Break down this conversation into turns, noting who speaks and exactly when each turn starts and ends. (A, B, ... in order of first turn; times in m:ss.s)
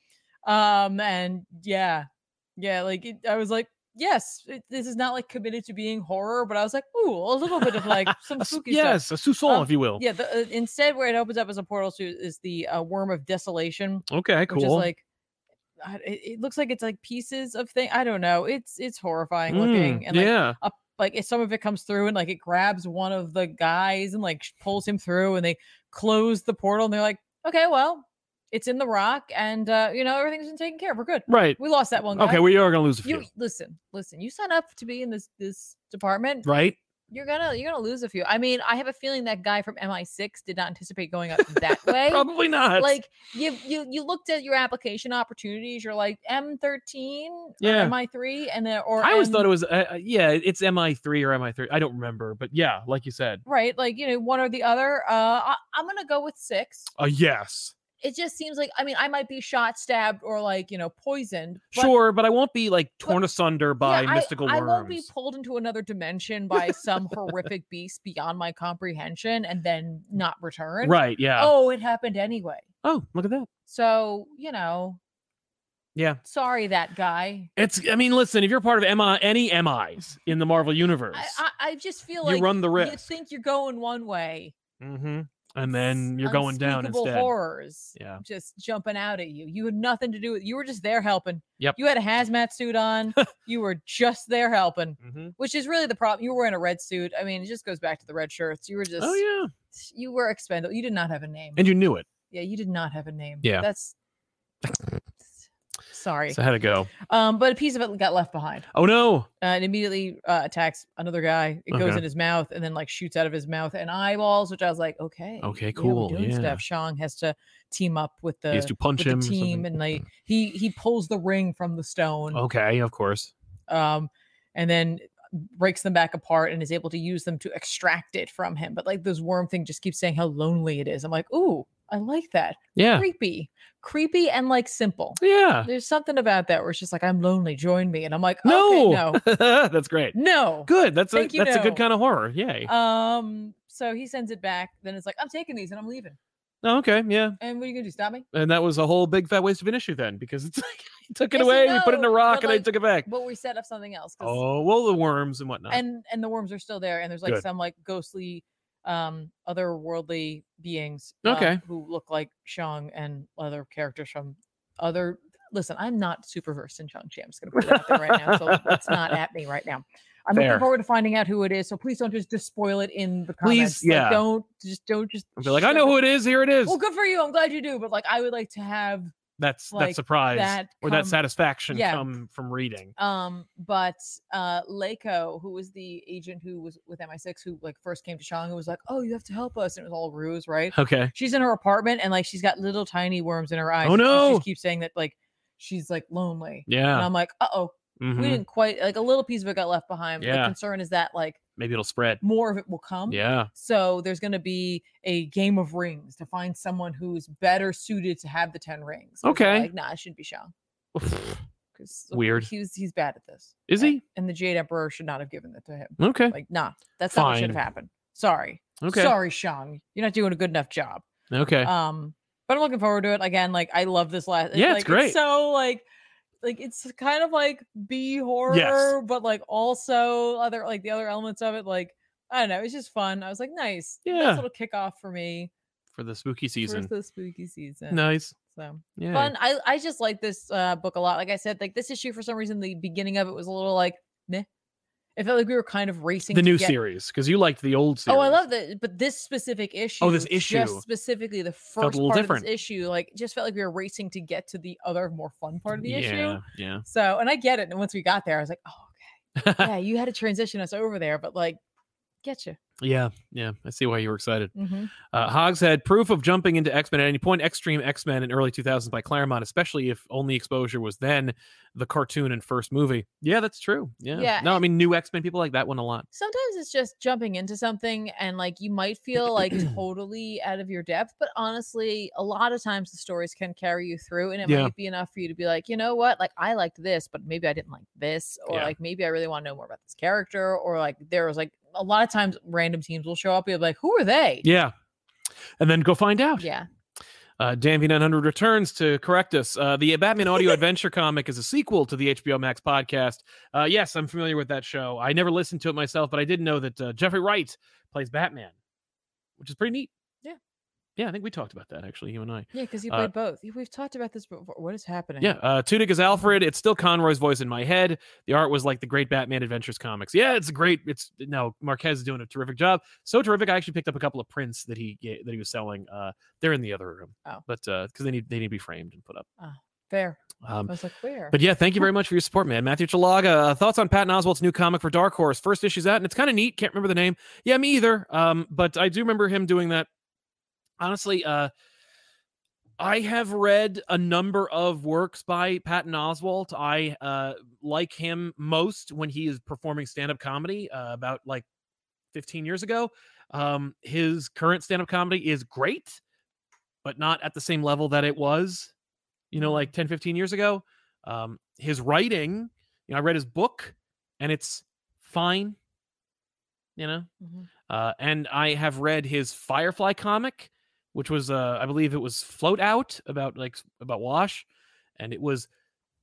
0:00.4-0:15.0 A
0:07.5-0:10.0 B
0:14.1-0:14.9 B
0:15.8-0:32.5 A
0:19.5-0:20.6 B
0:31.3-0:31.6 B
0:32.1-0:33.2 B
0:33.0-0:36.5 A
0:36.4-0:36.8 B
0:37.1-0:49.5 A
0:41.4-0:42.9 B
0:47.6-0:47.9 B
0:49.0-0:53.4 B
0:53.4-0:56.9 A
0:56.9-0:57.8 B
0:58.0-1:01.9 A
1:01.7-1:05.1 B
1:03.8-1:12.6 A
1:06.6-1:07.3 B
1:10.8-1:11.5 B
1:12.8-1:13.5 B
1:13.7-1:15.0 A
1:15.9-1:16.2 B
1:16.2-1:17.5 A
1:17.6-1:21.4 B
1:21.1-1:24.5 A
1:22.2-1:23.1 B
1:24.8-1:27.3 B
1:26.2-1:39.2 A
1:27.9-1:28.2 B
1:35.0-1:35.3 B
1:39.0-1:39.5 B
1:39.7-1:41.6 A
1:41.6-1:42.1 B
1:42.3-1:43.9 A
1:45.9-1:46.4 A
1:46.3-1:46.9 B
1:47.0-1:48.7 A
1:48.7-1:49.3 B
1:49.4-2:02.4 A
1:51.7-1:52.0 B
1:55.4-1:56.6 B
1:58.5-1:59.7 B
2:02.3-2:03.3 B
2:03.7-2:19.2 A
2:12.8-2:13.1 B
2:15.2-2:15.7 B
2:18.4-2:22.7 B
2:20.1-2:21.8 A
2:22.6-2:26.2 A
2:26.6-2:27.4 B
2:27.4-2:28.2 A
2:28.3-2:33.1 B
2:31.3-2:34.4 A
2:34.2-2:35.8 B
2:35.7-2:56.0 A
2:41.2-2:41.6 B
2:47.5-2:49.2 B
2:50.3-2:50.6 B
2:53.4-2:54.2 B
2:55.4-2:56.8 B
2:56.6-2:59.1 A
2:59.4-3:02.9 B
2:59.7-3:01.2 A
3:01.7-3:02.1 A
3:03.0-3:21.4 A
3:10.7-3:11.1 B
3:13.8-3:14.4 B
3:16.7-3:17.1 B
3:18.0-3:18.4 B
3:20.2-3:20.5 B
3:21.6-3:22.2 B
3:22.2-3:30.5 A
3:23.1-3:23.5 B
3:29.2-3:29.7 B
3:30.9-3:31.4 B
3:31.7-3:41.0 A
3:32.1-3:32.5 B
3:33.7-3:34.0 B
3:36.0-3:36.3 B
3:37.1-3:37.6 B
3:38.8-3:39.1 B
3:41.3-3:41.7 B
3:41.6-3:45.8 A
3:44.5-3:45.2 B
3:46.4-3:55.5 A
3:48.5-3:49.0 B
3:54.0-3:54.4 B
3:55.9-3:56.9 B
3:56.6-4:04.5 A
3:57.9-3:58.3 B
3:59.0-3:59.3 B
4:05.2-4:06.8 A
4:06.3-4:08.4 B
4:08.1-4:21.6 A
4:10.0-4:10.8 B
4:11.8-4:12.5 B
4:15.8-4:16.8 B
4:19.4-4:19.7 B
4:22.2-4:22.6 A
4:22.8-4:24.5 B
4:24.5-4:24.9 A
4:25.1-4:36.1 B
4:34.1-4:34.6 A
4:36.1-4:54.4 A
4:44.4-4:44.7 B
4:54.4-4:54.7 B
4:55.6-4:56.5 B
4:56.4-4:56.7 A
4:57.4-5:08.5 B
5:09.4-5:09.9 B
5:11.0-5:13.1 B
5:12.5-5:15.3 A
5:15.2-5:29.3 B
5:29.4-5:31.4 A
5:30.4-5:30.7 B
5:31.3-5:39.9 B
5:40.8-5:41.5 B
5:42.8-5:51.4 B
5:52.1-5:56.0 B
5:56.8-5:58.7 B
5:59.3-6:05.6 B
5:59.4-5:59.7 A
6:06.8-6:07.1 B
6:07.2-6:07.5 A
6:07.7-6:14.4 B
6:15.0-6:15.5 B